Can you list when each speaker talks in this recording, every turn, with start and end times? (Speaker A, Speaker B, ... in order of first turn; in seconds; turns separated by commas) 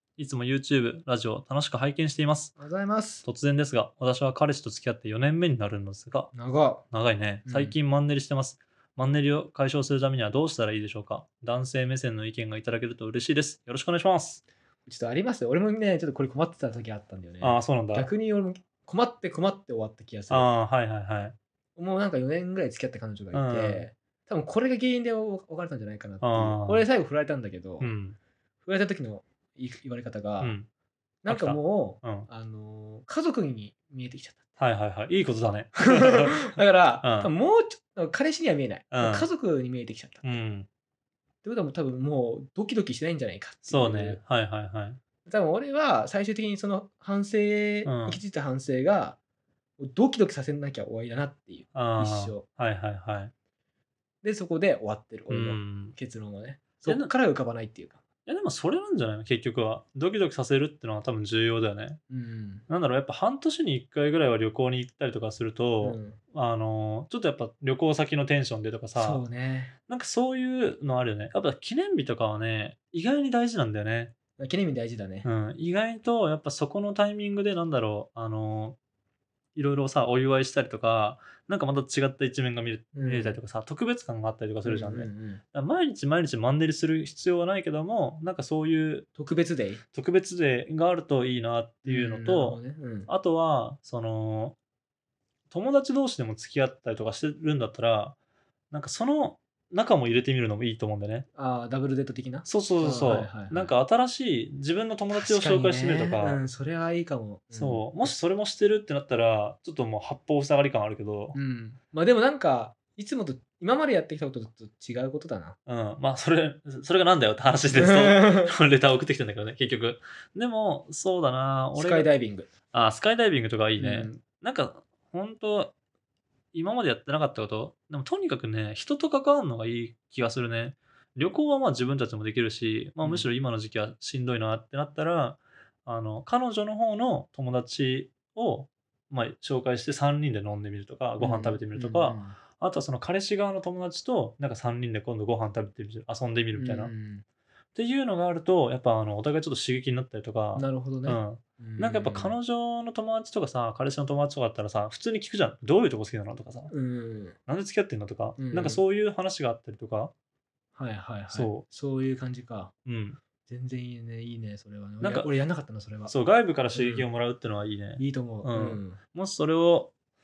Speaker A: 0.2-2.5, Speaker B: 2.6-3.2, Speaker A: 3.2-6.3, Speaker B: 6.3-6.8, Speaker A: 6.9-14.4, Speaker B: 7.5-7.8, Speaker B: 14.9-20.5, Speaker A: 17.4-18.1, Speaker A: 20.3-21.4, Speaker B: 21.8-27.9, Speaker A: 23.3-23.9, Speaker A: 26.2-26.9, Speaker A: 27.8-28.2, Speaker B: 28.6-30.6, Speaker A: 30.4-30.7, Speaker B: 31.2-34.4, Speaker A: 31.3-32.3, Speaker A: 34.6-37.3, Speaker B: 35.8-40.4, Speaker A: 38.9-39.3, Speaker A: 40.2-40.7, Speaker B: 41.4-44.2, Speaker A: 43.7-45.0, Speaker B: 45.2-49.2, Speaker A: 47.8-48.2, Speaker B: 49.8-52.5, Speaker A: 51.7-53.3, Speaker B: 54.2-58.0, Speaker A: 55.3-56.0, Speaker A: 56.8-57.1, Speaker A: 58.3-62.0, Speaker B: 62.1-62.6, Speaker A: 62.7-69.2, Speaker B: 65.8-66.2, Speaker B: 69.0-69.8, Speaker A: 69.9-74.1, Speaker B: 74.4-75.3, Speaker A: 75.2-78.8, Speaker A: 79.5-89.1, Speaker B: 83.0-83.4, Speaker B: 84.7-85.4, Speaker B: 89.2-89.8, Speaker A: 89.9-94.6, Speaker B: 91.8-93.1, Speaker A: 95.5-98.2, Speaker A: 98.7-101.3, Speaker B: 101.3-103.7, Speaker A: 102.5-106.4, Speaker B: 105.1-108.1, Speaker A: 107.6-111.4, Speaker B: 111.3-115.6, Speaker A: 115.7-122.1, Speaker B: 117.8-118.5, Speaker B: 121.8-122.5, Speaker A: 122.7-125.7, Speaker B: 123.8-124.1, Speaker A: 126.5-146.9, Speaker B: 141.2-142.3, Speaker B: 146.6-147.2, Speaker A: 147.8-156.7, Speaker B: 150.6-152.3, Speaker B: 156.7-157.4, Speaker A: 157.5-160.1, Speaker B: 158.4-158.8, Speaker B: 160.8-162.7, Speaker A: 161.3-161.7, Speaker A: 162.8-163.2, Speaker B: 163.5-166.1, Speaker A: 165.0-165.3, Speaker A: 166.1-169.9, Speaker B: 166.7-167.1, Speaker B: 168.0-169.0